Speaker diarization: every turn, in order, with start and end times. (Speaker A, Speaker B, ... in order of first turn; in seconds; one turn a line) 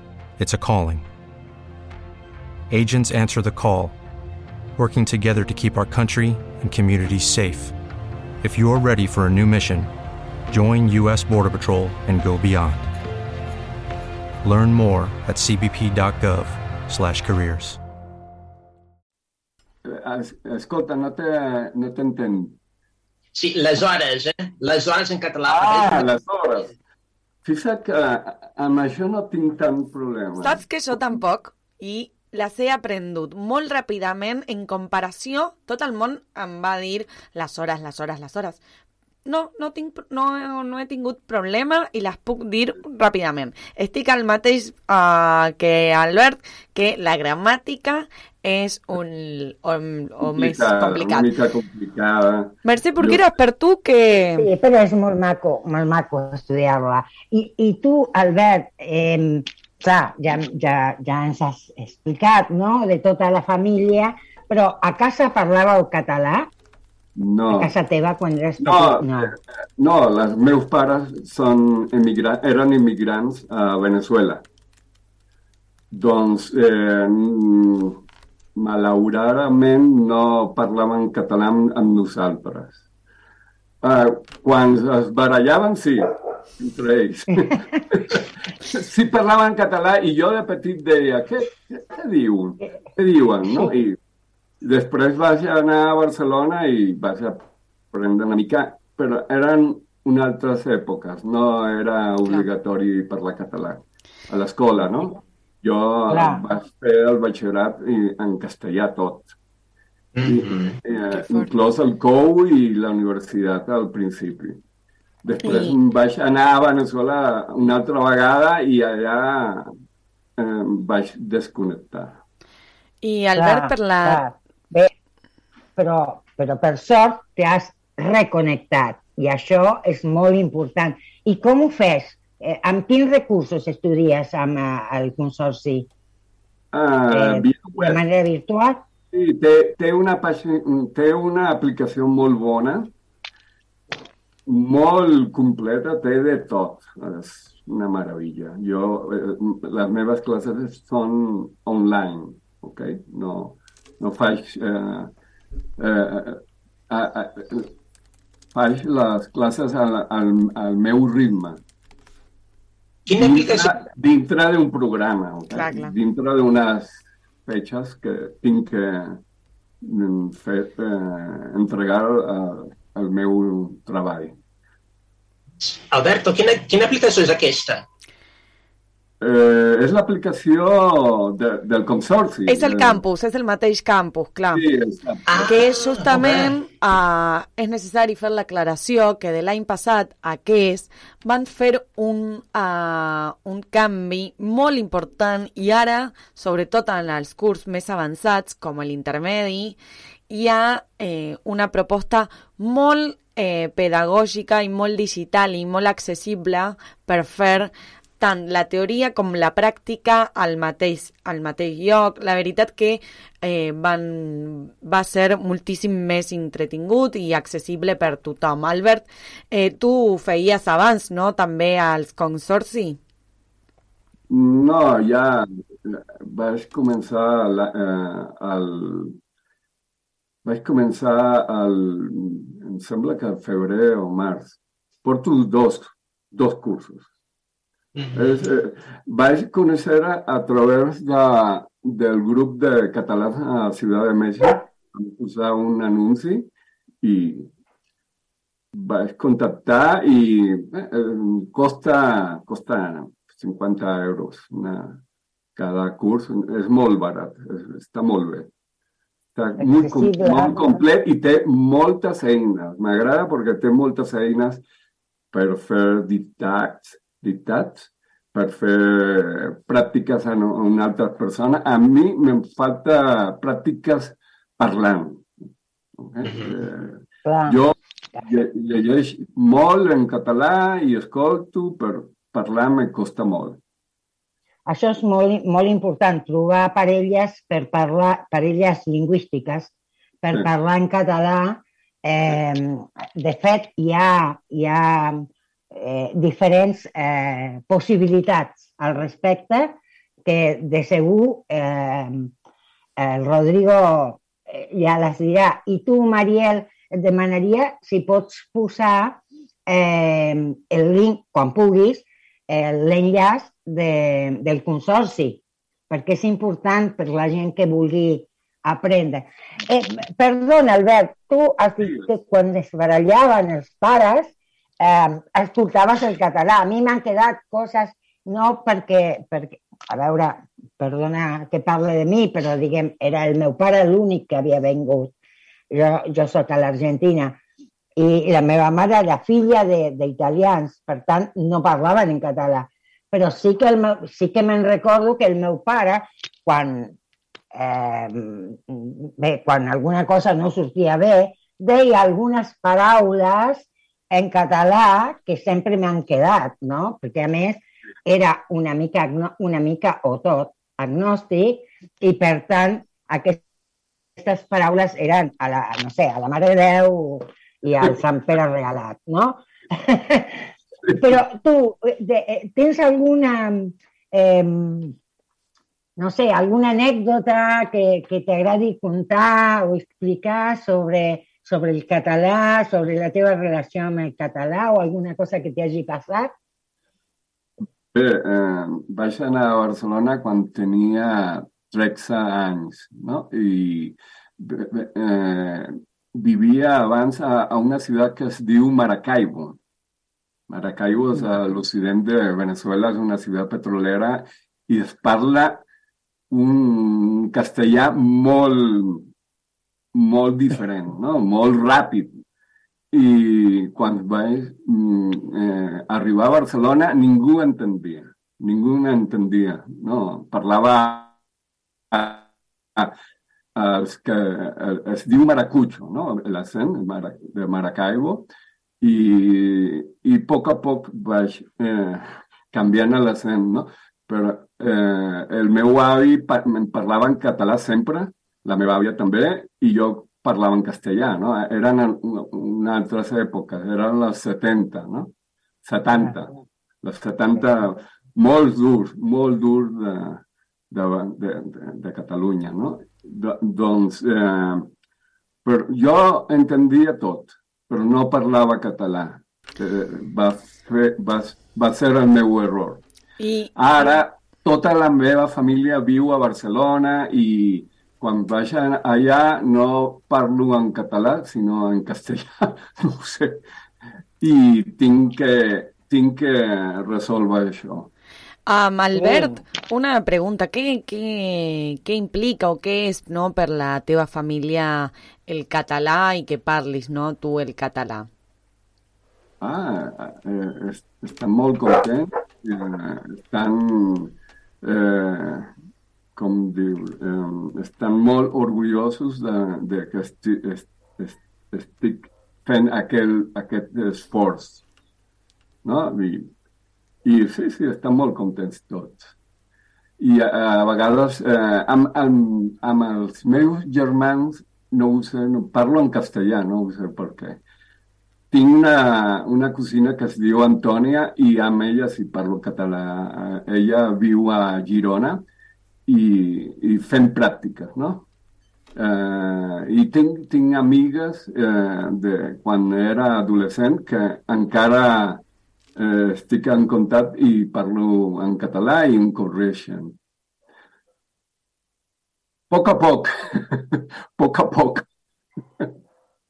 Speaker A: 0.4-1.0
Speaker A: 2.7-3.9
Speaker A: 4.8-7.7
Speaker A: 8.4-9.9
Speaker A: 10.5-12.8
Speaker A: 14.4-17.8
Speaker B: 19.8-22.6
Speaker C: 23.3-26.2
Speaker B: 25.5-26.7
Speaker B: 27.4-30.6
Speaker D: 30.4-38.6
Speaker D: 39.2-51.3
Speaker B: 50.2-53.2
Speaker D: 52.6-54.5
Speaker E: 54.4-66.5
Speaker B: 67.2-67.7
Speaker E: 67.5-69.3
Speaker B: 68.6-74.5
Speaker B: 75.9-78.0
Speaker B: 78.5-82.8
Speaker B: 83.8-94.0
Speaker B: 94.6-109.3
Speaker E: 106.1-106.4
Speaker C: 110.2-110.8
Speaker B: 110.2-114.6
Speaker D: 111.1-111.5
Speaker B: 115.2-119.7
Speaker D: 115.4-115.8
Speaker B: 120.4-122.2
Speaker D: 123.0-124.2
Speaker E: 123.3-124.9
Speaker E: 125.8-135.9
Speaker B: 136.7-138.0
Speaker E: 137.1-138.8
Speaker B: 139.1-142.9
Speaker B: 144.4-155.1
Speaker B: 155.8-157.7
Speaker B: 158.5-161.6
Speaker C: 163.1-163.8
Speaker B: 163.1-169.2
Speaker D: 165.5-165.9
Speaker B: 169.8-174.3
Speaker C: 175.6-177.8
Speaker B: 179.2-183.0
Speaker D: 182.5-184.7
Speaker B: 184.5-185.5
Speaker C: 185.3-186.5
Speaker D: 185.4-199.8
Speaker D: 200.3-223.0
Speaker B: 224.3-229.2
Speaker B: 230.4-237.1
Speaker B: 238.1-246.5
Speaker B: 247.0-247.5
Speaker B: 248.7-255.0
Speaker B: 255.5-258.5
Speaker B: 259.3-264.6
Speaker E: 259.6-260.8
Speaker B: 265.3-275.3
Speaker B: 276.0-283.6
Speaker E: 277.2-277.6
Speaker E: 284.6-289.7
Speaker E: 290.2-302.3
Speaker E: 303.0-335.1
Speaker B: 321.8-322.1
Speaker E: 335.7-337.4
Speaker E: 338.0-346.9
Speaker E: 347.5-363.4
Speaker E: 364.2-370.4
Speaker B: 370.9-371.2
Speaker E: 371.0-374.9
Speaker E: 376.0-386.3
Speaker B: 387.9-399.6
Speaker B: 400.5-405.6
Speaker B: 406.3-409.1
Speaker B: 409.9-412.2
Speaker B: 412.9-421.1
Speaker B: 421.9-422.9
Speaker B: 423.6-428.3
Speaker B: 428.8-454.7
Speaker B: 455.4-462.8
Speaker D: 463.2-463.9
Speaker B: 463.6-473.4
Speaker B: 474.2-477.9
Speaker D: 478.5-488.1
Speaker E: 478.9-479.3
Speaker B: 489.4-495.5
Speaker B: 496.1-504.6
Speaker B: 505.6-506.3
Speaker B: 507.0-509.1
Speaker B: 510.0-517.4
Speaker B: 518.3-525.2
Speaker B: 525.9-528.1
Speaker B: 528.8-535.2
Speaker B: 535.8-540.0
Speaker B: 542.5-544.9